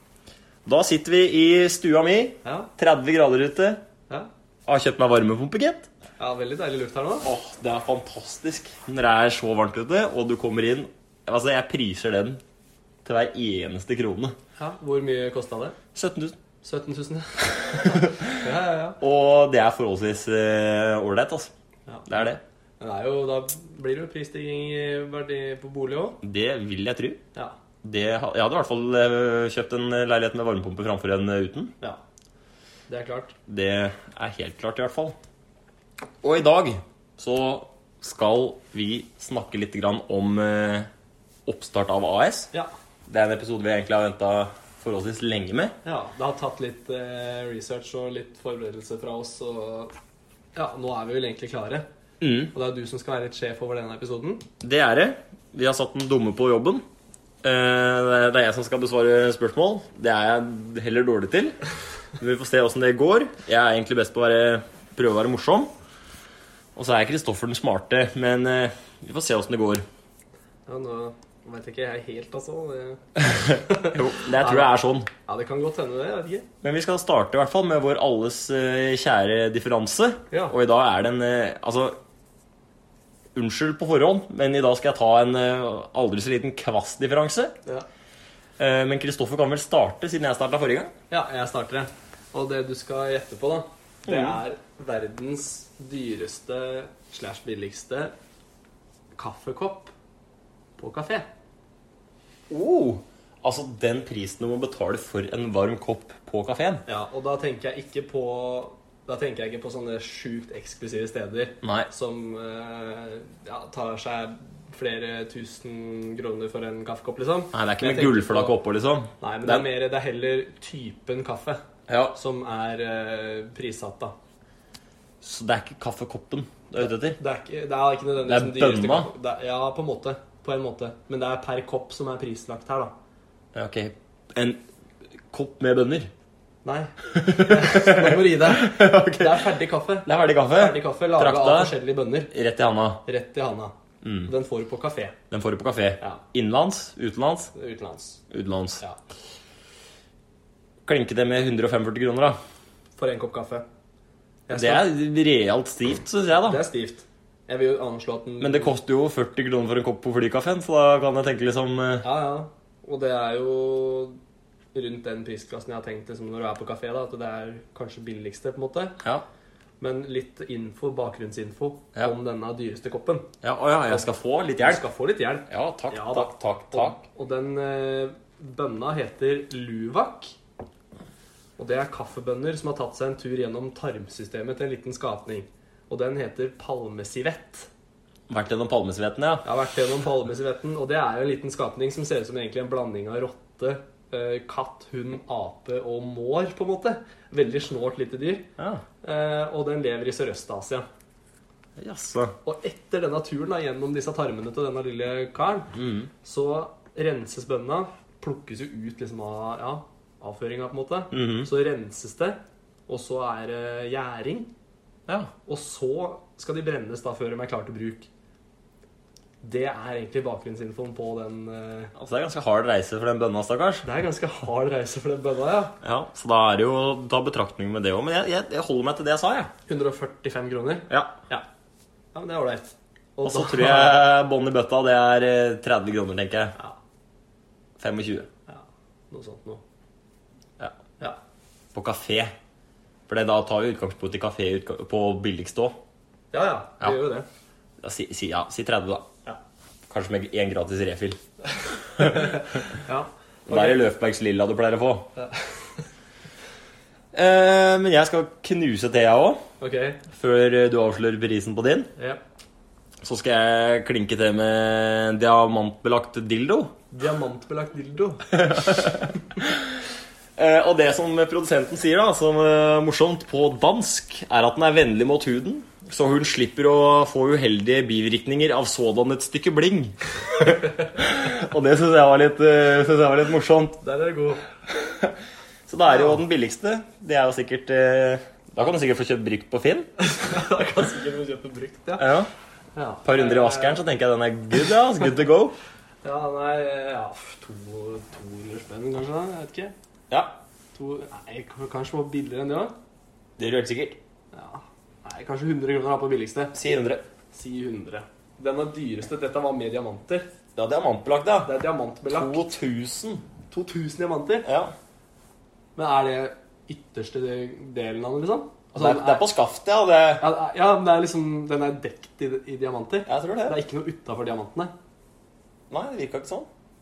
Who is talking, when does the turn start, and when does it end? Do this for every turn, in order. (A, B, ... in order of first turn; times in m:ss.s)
0:00.7-0:03.8 A
0:02.4-0:02.7 B
0:04.7-0:05.9 A
0:06.2-0:07.3 B
0:07.2-0:12.4 A
0:13.0-0:14.4 A
0:14.6-0:15.8 B
0:16.0-0:16.4 A
0:16.6-0:19.0 B
0:17.6-0:18.4 A
0:19.0-0:21.5 A
0:22.1-0:22.4 A
0:22.8-0:26.2 B
0:26.2-0:27.2 A
0:27.8-0:31.8 A
0:32.9-0:33.3 B
0:33.5-0:35.2 A
0:36.2-0:40.9 A
0:41.5-0:42.5 A
0:43.1-0:45.8 A
0:45.8-0:49.9 B
0:50.6-0:51.9 B
0:52.2-0:52.5 A
0:52.5-0:54.5 B
0:54.6-0:56.8 A
0:57.4-1:01.6 A
1:02.2-1:05.7 A
1:06.8-1:09.8 A
1:10.7-1:14.7 B
1:13.2-1:15.1 A
1:15.3-1:16.5 B
1:16.6-1:22.0 A
1:23.4-1:27.6 A
1:28.6-1:30.9 A
1:31.1-1:38.1 B
1:34.1-1:34.4 A
1:39.2-1:39.9 B
1:40.8-1:41.3 B
1:42.5-1:46.8 A
1:46.9-1:58.6 B
1:51.6-1:51.9 A
1:57.5-1:59.7 A
1:59.2-2:01.6 B
2:01.9-2:02.2 A
2:02.2-2:04.1 B
2:05.2-2:07.2 A
2:06.8-2:12.9 B
2:08.2-2:09.1 A
2:13.5-2:14.6 A
2:15.3-2:16.1 A
2:16.6-2:22.3 B
2:17.1-2:19.5 A
2:20.1-2:21.8 A
2:22.3-2:23.0 A
2:23.1-2:23.8 B
2:24.0-2:24.3 A
2:24.3-2:25.2 B
2:25.3-2:27.5 A
2:27.5-2:28.2 B
2:28.3-2:28.8 A
2:30.9-2:32.4 A
2:33.0-2:33.7 B
2:34.5-2:34.9 B
2:34.5-2:36.6 A
2:36.4-2:38.7 B
2:38.4-2:42.1 A
2:42.0-2:44.2 B
2:44.7-2:49.0 B
2:49.8-2:53.3 B
2:53.4-2:54.8 A
2:54.6-3:00.4 B
2:55.5-2:57.0 A
3:01.6-3:07.7 B
3:08.3-3:09.5 A
3:09.4-3:18.5 B
3:18.6-3:18.8 A
3:19.0-3:20.9 B
3:21.8-3:22.4 A
3:22.4-3:34.5 B
3:25.7-3:26.1 A
3:31.1-3:31.5 A
3:35.4-3:38.1 B
3:39.4-3:41.9 B
3:41.9-3:43.8 A
3:43.8-3:45.8 B
3:45.8-3:49.5 A
3:49.7-3:51.5 B
3:50.9-3:51.2 A
3:52.1-3:54.0 B
3:53.2-3:56.6 A
3:57.8-3:58.3 A
3:58.5-3:59.6 B
4:01.7-4:02.3 A
4:03.1-4:05.8 A
4:06.3-4:07.3 B
4:07.8-4:09.1 A
4:09.9-4:11.2 A
4:12.0-4:12.6 A
4:12.0-4:13.8 B
4:13.5-4:15.1 A
4:15.2-4:15.5 B
4:17.1-4:19.4 A
4:19.6-4:20.0 B
4:20.1-4:21.9 A
4:22.0-4:22.2 B
4:23.0-4:26.7 A
4:26.9-4:28.3 B
4:28.3-4:29.8 A
4:30.4-4:43.8 A
4:43.8-4:44.4 B
4:45.7-4:49.9 A
4:45.9-4:46.2 B
4:50.0-4:52.1 B
4:52.0-4:52.3 A
4:52.8-4:53.8 B
4:53.0-4:55.6 A
4:56.0-4:59.7 B
5:00.8-5:02.8 B
5:03.4-5:04.0 A
5:04.3-5:06.5 B
5:06.5-5:07.0 A
5:07.3-5:10.3 B
5:10.6-5:11.6 A
5:11.4-5:12.4 B
5:12.1-5:13.2 A
5:13.5-5:14.5 B
5:14.4-5:14.7 A
5:15.8-5:19.3 B
5:18.8-5:20.3 A
5:20.2-5:24.7 B
5:23.1-5:23.6 A
5:25.7-5:26.5 A